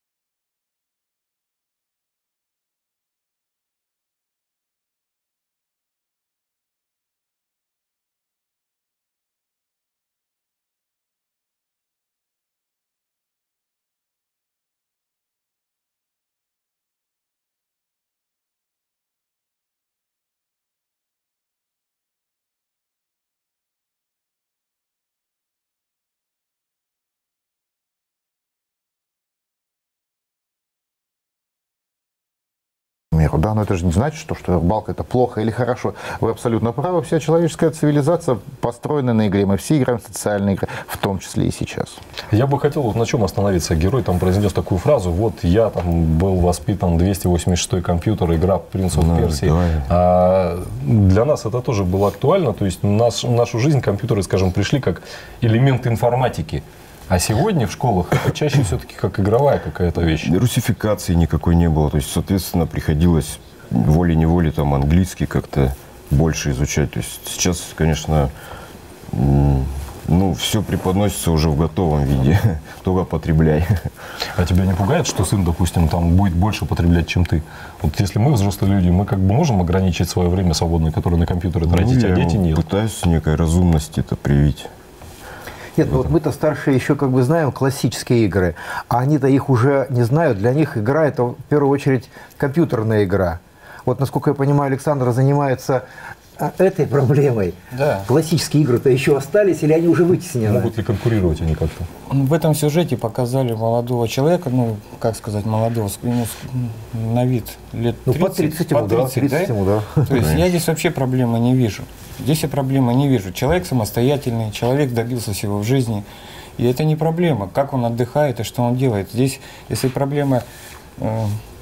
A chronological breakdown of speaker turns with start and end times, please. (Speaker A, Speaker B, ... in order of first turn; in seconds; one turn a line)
Speaker A: 33.1-42.0
Speaker B: 42.3-60.3
Speaker C: 48.9-49.9
Speaker C: 60.2-68.3
Speaker C: 69.1-73.9
Speaker B: 74.3-82.6
Speaker C: 81.7-84.7
Speaker D: 85.8-95.8
Speaker D: 96.4-100.7
Speaker E: 97.7-98.1
Speaker B: 100.5-101.9
Speaker E: 102.1-109.5
Speaker D: 108.0-110.0
Speaker E: 110.0-116.0
Speaker C: 110.1-110.5
Speaker E: 116.6-120.4
Speaker E: 121.0-121.4